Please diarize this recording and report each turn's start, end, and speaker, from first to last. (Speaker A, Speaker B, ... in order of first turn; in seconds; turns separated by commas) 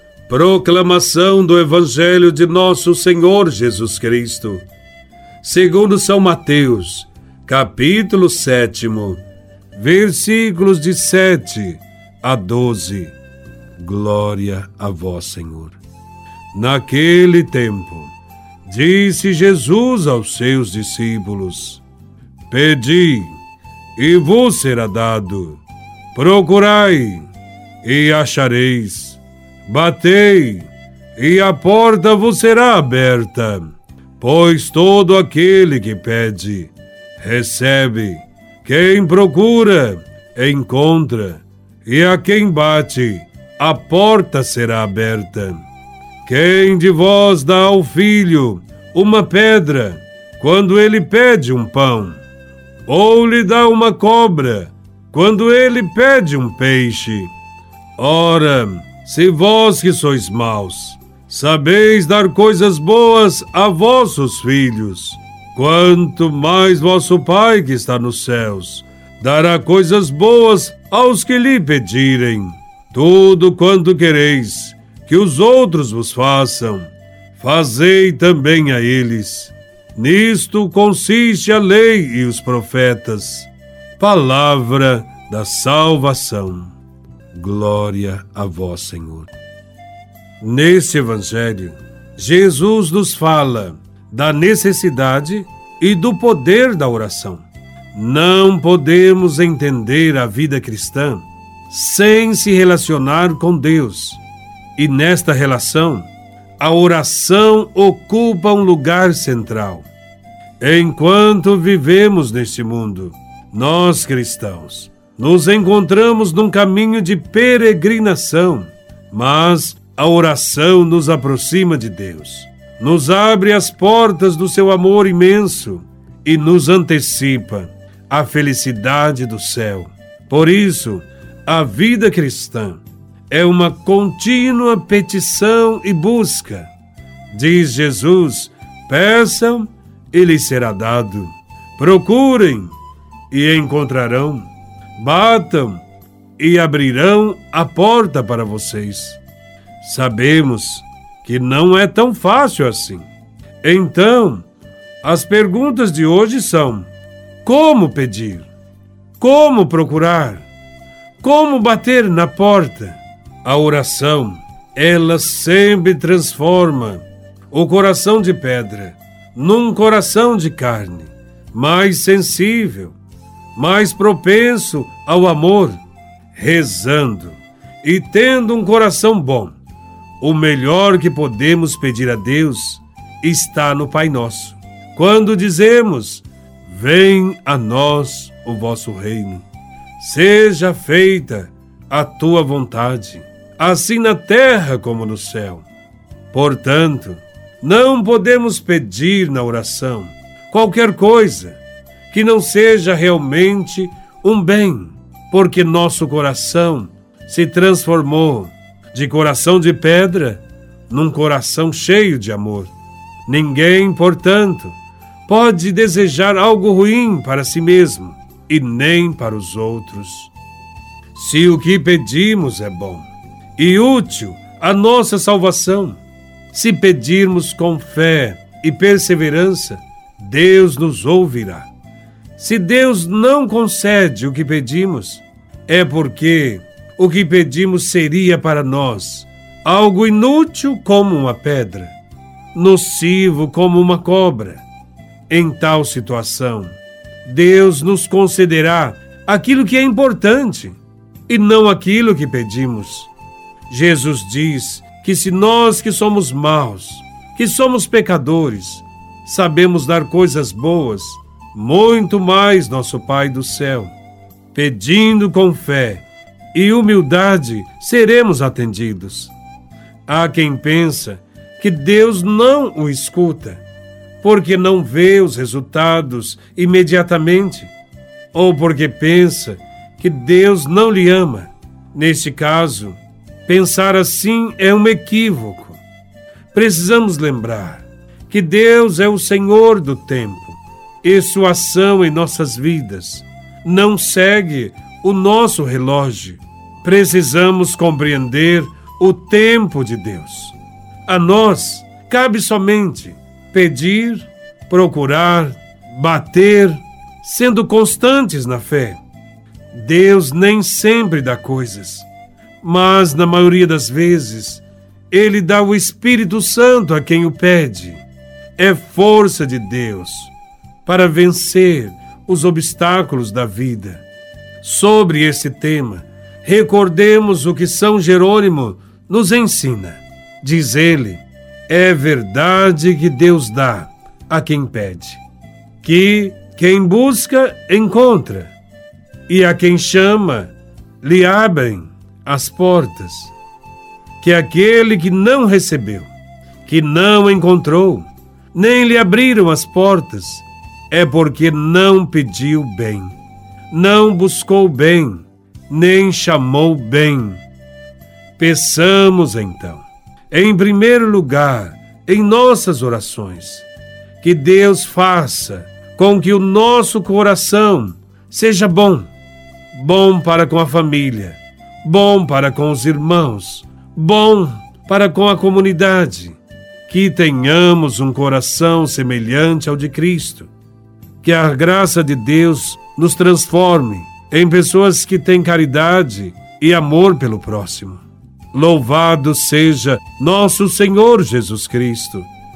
Speaker A: 0.3-4.7, Speaker A: 5.4-9.2, Speaker A: 9.7-13.2, Speaker A: 13.8-15.8, Speaker A: 16.5-18.1, Speaker A: 18.7-21.8, Speaker A: 22.5-23.4, Speaker A: 24.0-25.6, Speaker A: 26.1-27.3, Speaker A: 27.8-45.6, Speaker A: 46.2-52.2, Speaker A: 52.9-57.3, Speaker A: 58.0-86.8, Speaker A: 87.3-89.3, Speaker A: 90.4-104.2, Speaker A: 104.8-106.1, Speaker A: 106.6-109.9, Speaker A: 110.6-136.7, Speaker A: 137.3-142.8, Speaker A: 143.3-145.8, Speaker A: 146.4-149.2, Speaker A: 149.8-153.1, Speaker A: 153.6-154.5, Speaker A: 155.0-156.9, Speaker A: 157.4-158.5, Speaker A: 159.2-160.5, Speaker A: 161.2-173.0, Speaker A: 173.6-175.8, Speaker A: 176.3-179.6, Speaker A: 180.2-189.5, Speaker A: 190.0-195.7, Speaker A: 196.3-212.7, Speaker A: 213.3-220.3, Speaker A: 221.1-226.0, Speaker A: 226.5-231.7, Speaker A: 232.4-241.9, Speaker A: 242.5-244.6, Speaker A: 245.3-250.8, Speaker A: 251.3-253.1, Speaker A: 253.7-263.9, Speaker A: 264.5-269.4, Speaker A: 270.1-273.6, Speaker A: 274.2-277.7, Speaker A: 278.3-285.8, Speaker A: 286.5-300.6, Speaker A: 301.1-309.0, Speaker A: 309.7-312.1, Speaker A: 312.6-318.0, Speaker A: 318.6-320.3, Speaker A: 320.9-324.0, Speaker A: 324.6-335.2, Speaker A: 335.8-338.6, Speaker A: 339.3-343.3, Speaker A: 344.2-346.1, Speaker A: 346.6-353.2, Speaker A: 353.7-357.4, Speaker A: 358.4-363.7, Speaker A: 364.2-369.1, Speaker A: 369.7-380.5, Speaker A: 381.2-392.3